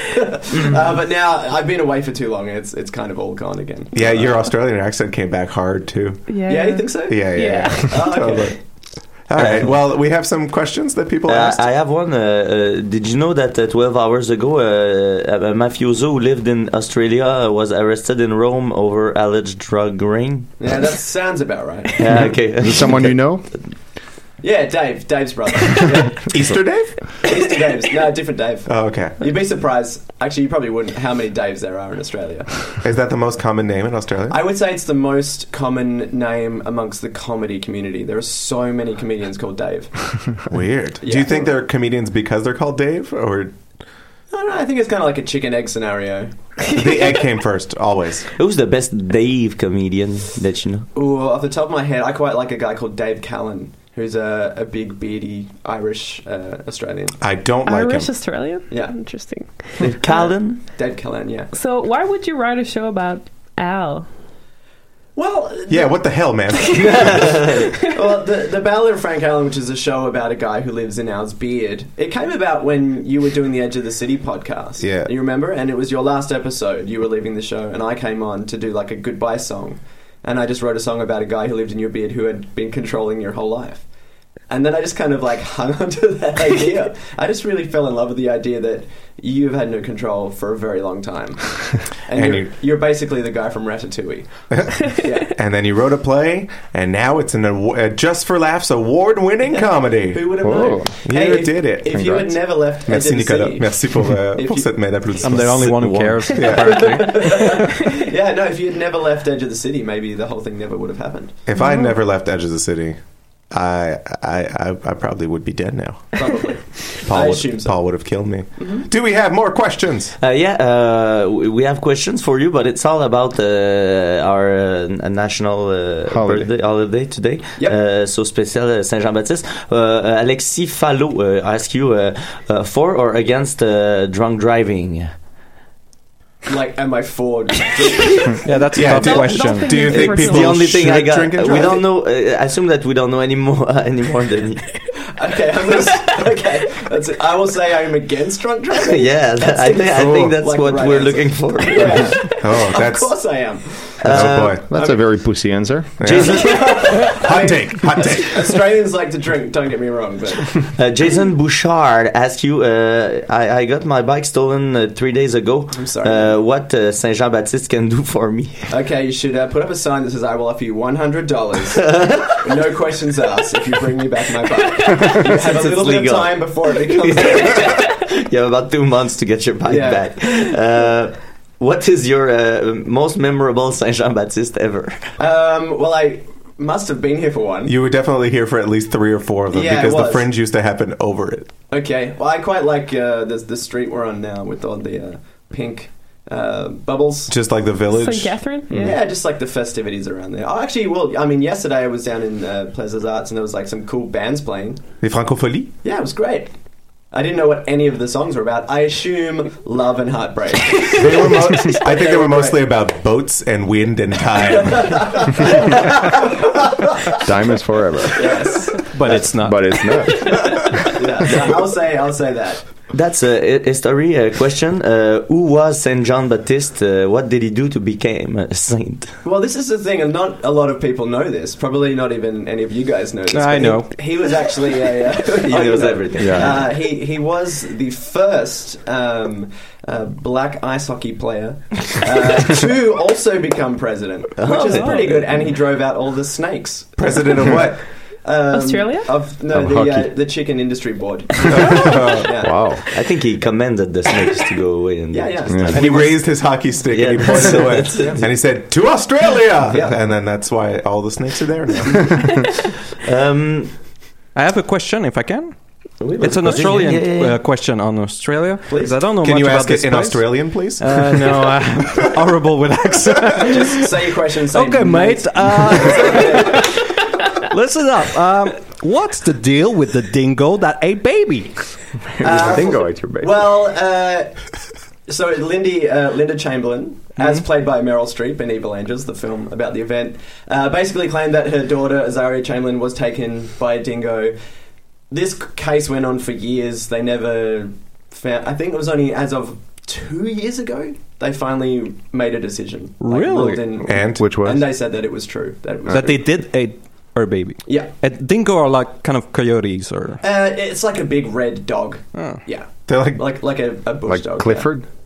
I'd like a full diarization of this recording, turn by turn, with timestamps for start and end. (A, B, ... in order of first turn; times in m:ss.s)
0:00.2-0:04.3 A
0:03.9-0:06.4 B
0:06.3-0:08.2 C
0:06.4-0:08.6 A
0:07.1-0:08.6 B
0:09.2-0:11.7 B
0:09.3-0:09.8 D
0:11.2-0:20.5 D
0:20.6-0:22.3 A
0:22.0-0:23.2 D
0:22.3-0:23.5 E
0:24.4-0:26.2 A
0:26.2-0:27.2 B
0:27.2-0:32.6 A
0:28.6-0:29.2 B
0:32.8-0:34.4 B
0:34.3-0:40.3 A
0:40.4-0:43.5 B
0:41.0-0:41.5 A
0:44.3-0:46.3 A
0:46.7-0:48.3 B
0:48.3-0:50.9 D
0:50.9-0:57.2 A
0:57.2-0:58.1 B
0:57.6-0:59.8 C
0:58.7-0:59.0 A
0:59.8-1:00.7 D
1:00.0-1:01.5 A
1:01.5-1:04.1 C
1:05.2-1:06.0 A
1:05.7-1:07.4 B
1:06.8-1:07.5 D
1:07.8-1:23.8 A
1:14.8-1:15.1 B
1:24.5-1:34.3 A
1:32.1-1:32.5 B
1:34.5-1:47.2 B
1:34.8-1:35.3 A
1:40.1-1:45.0 A
1:40.4-1:40.9 E
1:41.9-1:42.4 E
1:45.2-1:47.9 F
1:46.5-1:51.4 A
1:51.4-1:53.0 B
1:51.6-1:51.9 C
1:53.5-1:56.4 B
1:56.1-1:58.9 A
1:57.0-2:00.2 B
2:00.2-2:15.1 D
2:06.1-2:06.5 E
2:16.4-2:18.6 A
2:18.4-2:19.9 F
2:18.7-2:21.8 B
2:18.8-2:20.6 C
2:19.9-2:24.7 D
2:25.1-2:35.1 A
2:28.8-2:32.2 D
2:30.0-2:30.3 B
2:32.3-2:33.5 B
2:34.0-2:34.6 D
2:34.0-2:34.7 B
2:34.7-2:36.0 E
2:36.0-2:38.6 B
2:36.0-2:37.0 D
2:36.2-2:40.6 A
2:40.7-2:48.7 D
2:45.7-2:46.4 A
2:48.7-2:57.8 A
2:51.8-2:52.4 D
2:55.0-3:05.1 D
2:59.6-3:00.5 A
3:05.2-3:07.7 A
3:07.6-3:11.5 B
3:09.5-3:10.3 A
3:11.7-3:17.3 A
3:17.3-3:18.4 B
3:17.9-3:18.9 C
3:18.7-3:24.8 A
3:25.0-3:25.7 B
3:25.8-3:26.5 A
3:27.1-3:32.6 A
3:30.9-3:35.6 B
3:34.6-3:36.2 A
3:37.2-3:38.5 E
3:38.1-3:39.1 A
3:38.9-3:40.2 F
3:39.0-3:40.6 E
3:40.2-3:42.6 A
3:42.9-3:49.2 D
3:49.2-4:07.6 A
3:53.3-3:54.2 F
3:55.4-3:56.7 D
3:56.2-3:56.6 E
4:04.4-4:05.3 D
4:04.6-4:05.0 C
4:07.0-4:07.8 B
4:08.2-4:12.7 A
4:08.5-4:09.1 C
4:09.5-4:10.1 E
4:11.4-4:12.3 B
4:12.4-4:12.8 E
4:12.9-4:16.2 D
4:15.1-4:16.2 A
4:15.5-4:15.8 E
4:15.7-4:22.3 B
4:16.8-4:18.2 D
4:17.4-4:18.2 A
4:19.7-4:20.0 A
4:23.0-4:23.8 D
4:24.3-4:25.5 F
4:26.1-4:26.8 A
4:26.1-4:27.4 D
4:26.2-4:41.9 F
4:28.6-4:29.1 A
4:29.2-4:31.5 B
4:33.4-4:37.0 A
4:42.2-4:43.5 E
4:42.2-4:44.4 A
4:45.1-4:54.3 A
4:47.2-4:47.4 F
4:55.1-5:06.3 A
5:03.0-5:03.7 F
5:03.8-5:04.4 B
5:04.1-5:04.7 E
5:05.9-5:10.2 F
5:07.6-5:07.9 A
5:10.2-5:14.7 A
5:12.1-5:12.4 F
5:12.9-5:13.4 B
5:14.1-5:14.8 E